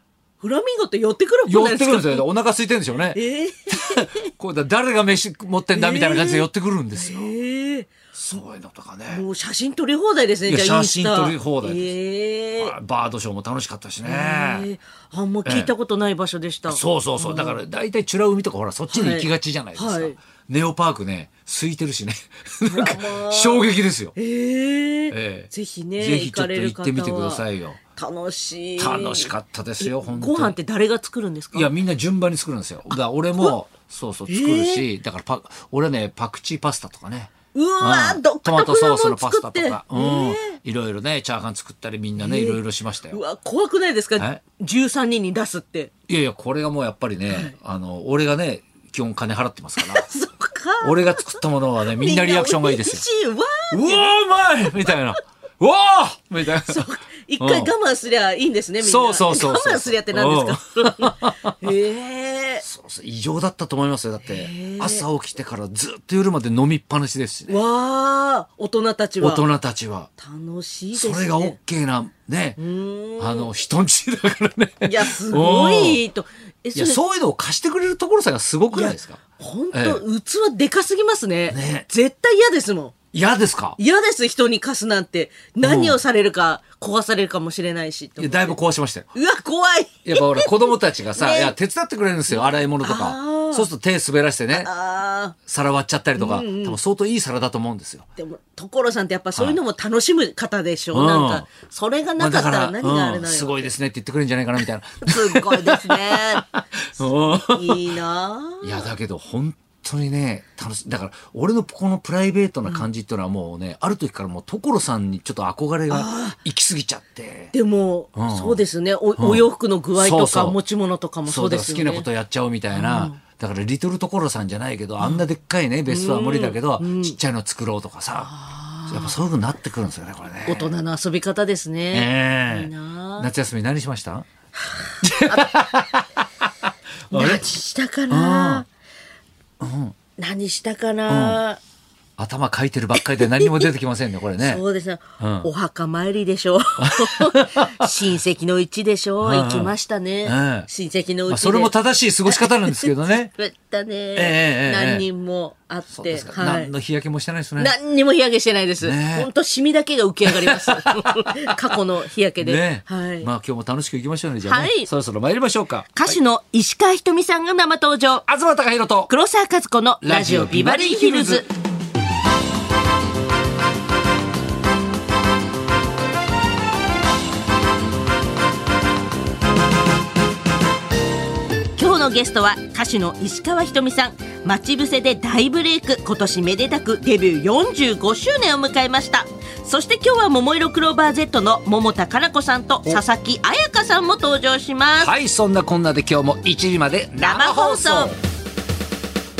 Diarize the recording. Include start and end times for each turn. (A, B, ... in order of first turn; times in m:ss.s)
0:00.4-0:02.2 A
0:01.4-0:07.3 B
0:03.1-0:04.3 A
0:05.7-0:07.9 A
0:08.1-0:09.2 B
0:09.1-0:12.7 A
0:10.4-0:11.9 B
0:12.5-0:14.7 B
0:14.0-0:17.6 A
0:15.4-0:15.7 B
0:16.7-0:24.1 B
0:18.9-0:20.2 A
0:22.7-0:27.4 A
0:25.1-0:27.8 B
0:28.0-0:31.7 A
0:28.8-0:30.6 B
0:31.5-0:43.2 B
0:34.3-0:34.8 A
0:37.5-0:40.5 A
0:42.2-0:45.9 A
0:46.1-0:50.1 B
0:47.3-0:47.5 A
0:49.8-0:55.0 A
0:50.8-0:53.0 B
0:53.7-0:56.8 B
0:56.6-1:02.6 A
0:57.4-0:57.7 B
0:58.8-1:01.5 B
1:02.6-1:07.6 B
1:04.2-1:05.0 A
1:07.5-1:09.4 A
1:09.2-1:10.1 B
1:10.2-1:11.6 A
1:10.9-1:12.6 B
1:12.6-1:13.5 A
1:13.2-1:16.0 B
1:14.8-1:17.0 A
1:16.7-1:19.2 B
1:18.7-1:22.9 A
1:19.7-1:20.0 B
1:21.5-1:21.8 B
1:23.1-1:23.8 B
1:23.8-1:28.6 A
1:25.6-1:26.0 B
1:28.2-1:29.1 B
1:29.1-1:31.5 A
1:30.0-1:34.7 B
1:32.3-1:33.7 A
1:34.5-1:35.4 A
1:35.4-1:38.0 B
1:36.2-1:36.8 A
1:38.2-1:43.7 A
1:40.9-1:41.5 B
1:42.2-1:47.9 B
1:45.0-1:46.5 A
1:47.0-1:48.9 A
1:48.6-1:57.5 B
1:55.9-1:56.4 A
1:57.5-2:02.1 A
1:58.1-1:58.6 B
1:59.2-2:00.6 B
2:01.2-2:08.3 B
2:02.7-2:03.2 A
2:05.9-2:07.2 A
2:08.2-2:09.2 A
2:08.9-2:10.7 B
2:10.4-2:13.3 A
2:11.9-2:14.3 B
2:14.6-2:15.5 A
2:15.0-2:16.2 B
2:17.1-2:17.4 B
2:17.1-2:18.6 A
2:18.1-2:18.6 B
2:19.6-2:19.9 B
2:20.2-2:21.6 A
2:21.1-2:21.4 B
2:22.2-2:24.6 B
2:23.0-2:23.6 A
2:24.4-2:31.7 A
2:25.2-2:25.5 B
2:26.8-2:27.9 B
2:29.2-2:30.7 B
2:31.3-2:33.3 B
2:32.2-2:36.7 A
2:34.1-2:35.0 B
2:35.9-2:37.7 B
2:37.6-2:43.3 A
2:38.8-2:39.3 B
2:40.2-2:41.5 B
2:42.4-2:46.2 B
2:44.4-2:44.9 A
2:46.0-2:48.2 A
2:48.2-2:49.1 B
2:49.1-2:51.5 A
2:50.0-2:51.4 B
3:01.7-3:15.1 A
3:15.0-3:18.2 B
3:17.2-3:18.2 A